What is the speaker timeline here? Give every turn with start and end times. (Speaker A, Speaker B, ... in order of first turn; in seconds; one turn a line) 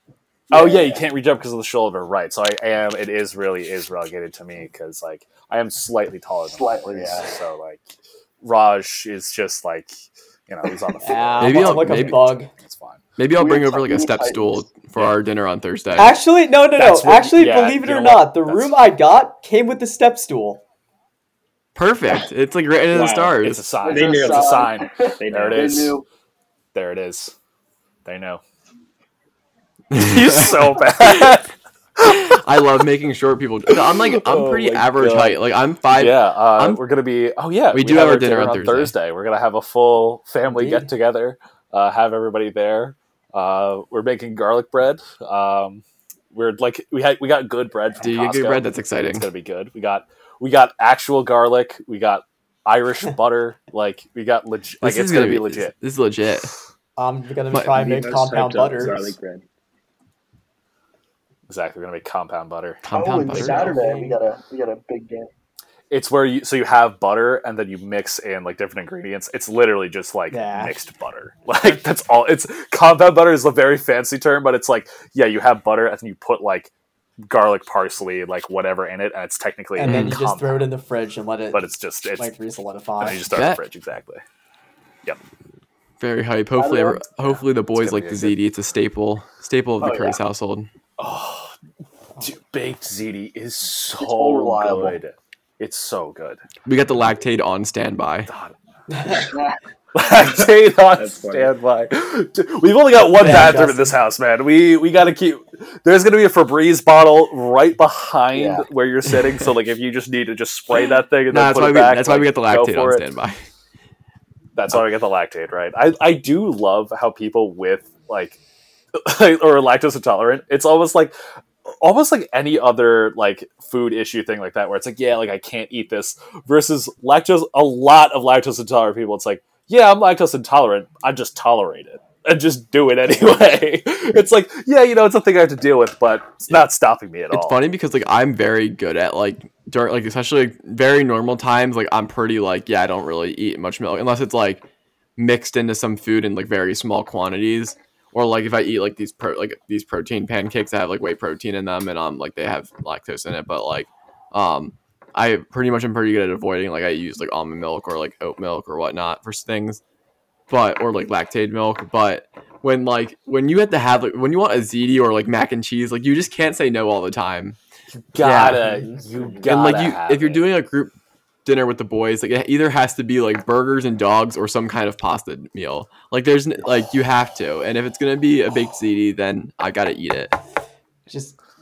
Speaker A: 0.5-1.0
Speaker B: 0.5-7.9
Speaker A: 6.5-7.3
Speaker B: 8.4-9.9
Speaker B: 10.5-13.0
Speaker C: 11.0-12.5
Speaker D: 11.4-12.3
Speaker D: 13.2-16.2
Speaker A: 13.4-14.7
Speaker C: 16.0-20.6
Speaker D: 16.8-17.3
Speaker B: 16.8-18.8
Speaker D: 21.8-23.6
Speaker E: 22.9-23.4
Speaker B: 23.4-26.0
Speaker A: 23.8-26.1
Speaker E: 23.9-25.9
Speaker B: 26.7-27.3
Speaker B: 28.1-28.4
Speaker D: 29.9-31.4
Speaker B: 29.9-32.4
Speaker D: 32.0-36.8
Speaker B: 33.7-35.4
Speaker B: 35.9-55.7
Speaker D: 37.7-38.9
Speaker C: 40.5-40.9
Speaker D: 48.0-49.3
Speaker D: 54.8-56.5
Speaker C: 57.0-59.2
Speaker D: 57.5-57.8
Speaker E: 57.7-59.4
Speaker B: 61.5-62.8
Speaker D: 62.8-63.8
Speaker A: 62.9-65.3
Speaker C: 63.3-64.2
Speaker B: 65.9-76.7
Speaker C: 70.3-70.8
Speaker B: 77.2-80.7
Speaker C: 79.8-81.6
Speaker D: 79.8-80.2
Speaker B: 81.5-82.3
Speaker C: 82.2-83.3
Speaker B: 83.0-84.2
Speaker D: 83.1-83.6
Speaker D: 86.0-90.7
Speaker A: 86.6-87.1
Speaker B: 87.7-88.3
Speaker A: 89.8-90.2
Speaker B: 91.0-91.6
Speaker B: 92.2-96.4
Speaker A: 94.0-95.0
Speaker D: 96.7-98.3
Speaker B: 98.3-98.5
Speaker C: 98.9-99.2
Speaker A: 99.3-99.6
Speaker B: 99.9-113.1
Speaker E: 101.0-101.5
Speaker C: 103.2-103.9
Speaker A: 108.3-108.7
Speaker D: 111.3-113.5
Speaker B: 114.5-118.4
Speaker B: 119.0-121.1
Speaker B: 121.8-137.6
Speaker D: 137.3-144.6
Speaker D: 145.2-159.8
Speaker D: 160.5-167.6
Speaker B: 168.0-170.5
Speaker D: 168.2-168.8
Speaker C: 168.6-169.0
Speaker D: 169.5-170.9
Speaker D: 171.4-180.3
Speaker C: 181.1-181.4